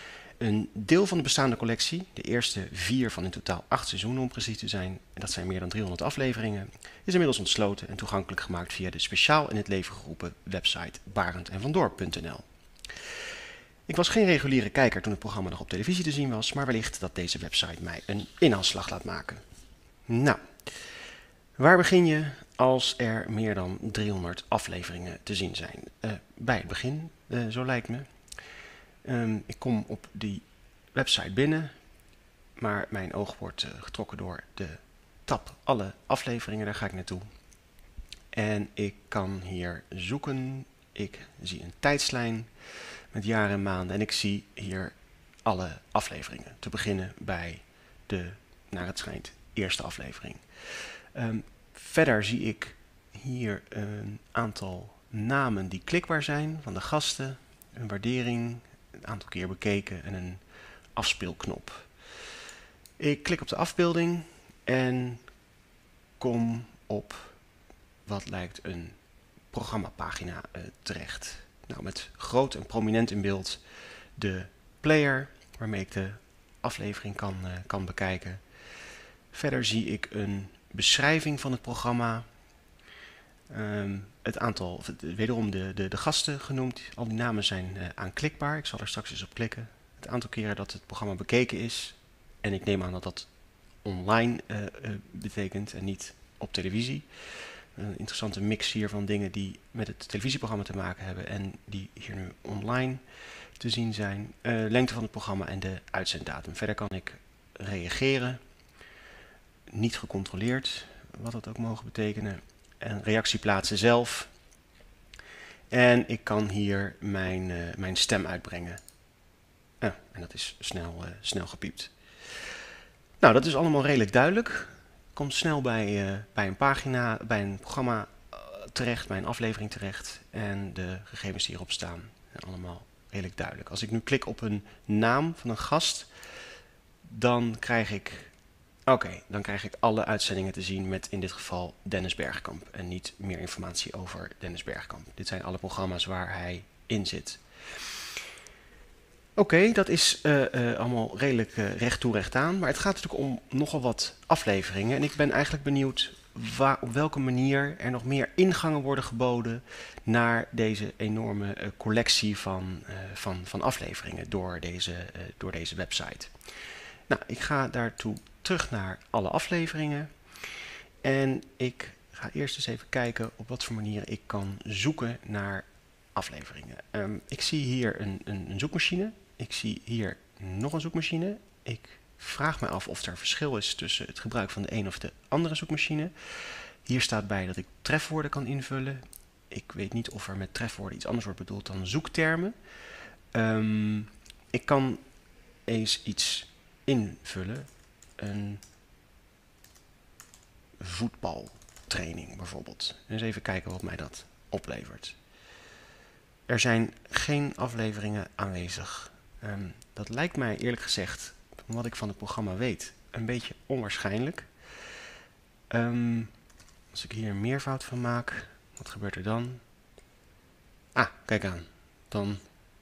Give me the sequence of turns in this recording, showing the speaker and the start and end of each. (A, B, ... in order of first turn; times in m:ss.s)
0:00.4-0:13.4 A
0:13.9-0:19.4 A
0:20.1-0:21.0 A
0:21.6-0:28.1 A
0:29.0-0:31.7 A
0:32.6-0:37.3 A
0:38.3-1:00.4 A
1:01.0-1:02.3 A
1:03.0-1:05.2 A
1:06.2-1:07.4 A
1:08.0-1:09.0 A
1:09.5-1:18.4 A
1:19.3-1:22.3 A
1:23.5-1:33.3 A
1:33.8-1:48.4 A
1:49.7-1:54.3 A
1:55.7-1:58.8 A
1:59.8-2:02.7 A
2:03.2-2:16.1 A
2:17.0-2:18.3 A
2:18.9-2:28.1 A
2:29.4-2:46.3 A
2:47.1-3:12.6 A
3:13.3-3:15.0 A
3:15.7-3:18.6 A
3:20.8-3:25.2 A
3:26.5-3:34.5 A
3:35.7-3:36.3 A
3:36.9-3:39.6 A
3:41.0-3:42.4 A